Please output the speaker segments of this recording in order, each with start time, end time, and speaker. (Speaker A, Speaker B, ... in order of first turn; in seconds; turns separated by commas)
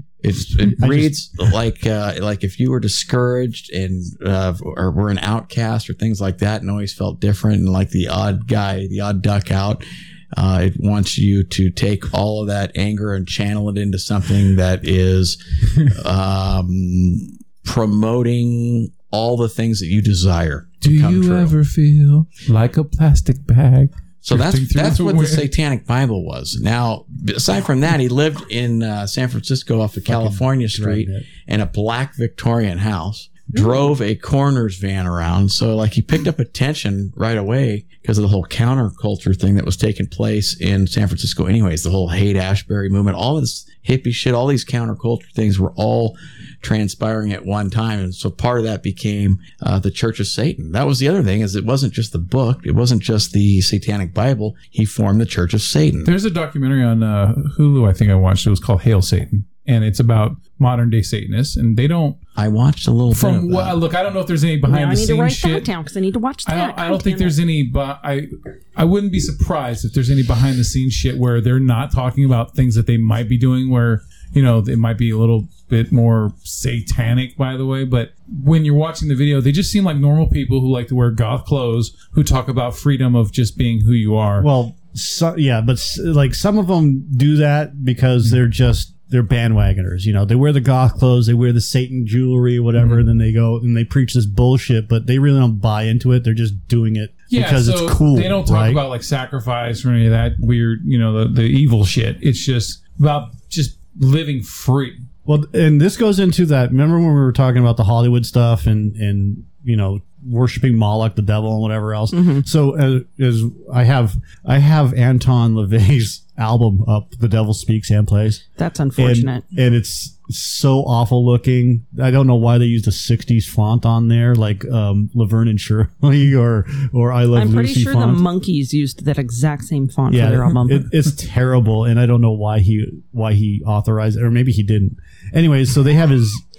Speaker A: 0.2-21.6, Speaker B: 0.8-1.1, Speaker C: 20.8-25.5, Speaker A: 24.2-56.1, Speaker B: 30.1-31.3, Speaker C: 56.0-62.2, Speaker A: 62.4-63.8, Speaker C: 63.1-65.7, Speaker D: 64.7-67.4, Speaker C: 66.4-84.5, Speaker B: 84.4-98.8, Speaker C: 92.8-93.0, Speaker C: 97.3-105.0, Speaker B: 105.2-118.4, Speaker D: 112.1-112.5, Speaker D: 118.6-119.4, Speaker B: 119.0-128.2, Speaker D: 127.3-130.9, Speaker B: 130.1-136.4